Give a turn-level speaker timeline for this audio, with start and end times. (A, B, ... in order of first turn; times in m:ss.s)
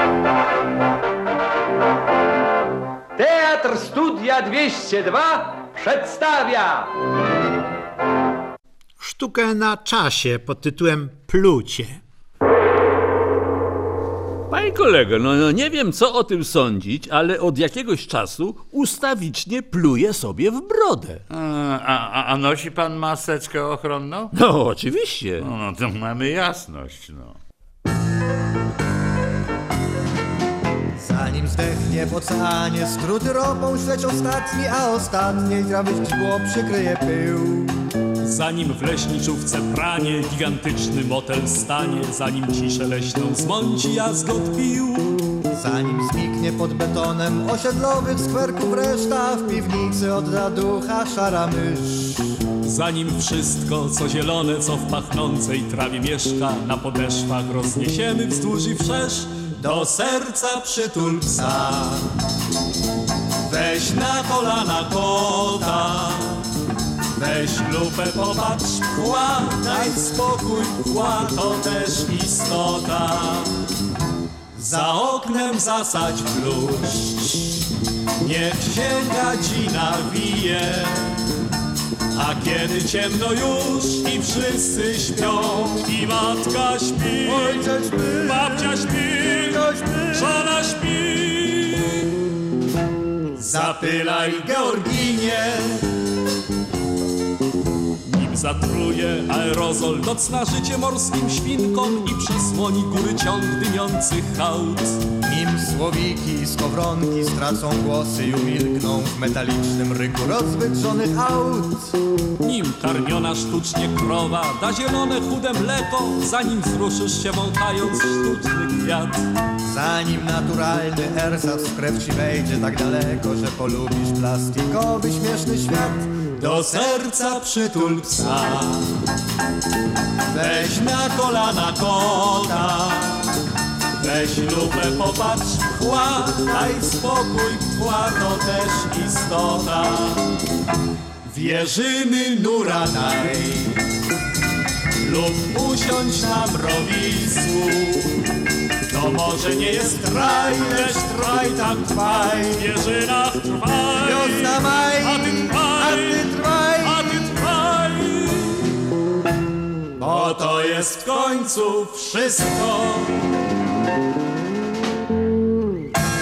0:03.2-0:06.9 A
0:09.0-0:12.0 B
0:14.5-0:21.2 C
0:21.3-0:24.3 D
0:24.3-0:25.5 C
0:25.4-0:27.4 D
0:31.0-0:37.7 E
0:38.2-0:45.2 F
0:45.5-0:52.2 E
0:52.6-1:01.8 F
1:01.3-1:02.0 E
1:03.5-1:06.4 F
1:07.2-1:13.6 F
1:09.6-1:10.1 E
1:14.6-1:17.6 F
1:18.2-1:21.2 F
1:22.1-1:27.7 F
1:25.2-1:25.8 E
1:27.2-1:28.8 E
1:28.2-1:32.1 F
1:29.3-1:30.4 E
1:33.4-1:35.1 F
1:33.4-1:35.8 E
1:38.0-1:45.0 F
1:45.2-1:52.0 E
1:52.4-1:59.2 F
1:59.6-2:07.2 E
2:06.4-2:08.8 F
2:07.9-2:08.5 E
2:10.3-2:11.0 E
2:10.4-2:13.3 F
2:14.0-2:20.2 F
2:16.5-2:16.8 E
2:21.2-2:23.4 F
2:22.5-2:23.8 E
2:25.0-2:28.1 F
2:28.9-2:38.7 F
2:29.8-2:32.7 E
2:34.0-2:37.2 E
2:40.0-2:41.5 E
2:40.0-2:43.1 F
2:42.2-2:42.5 E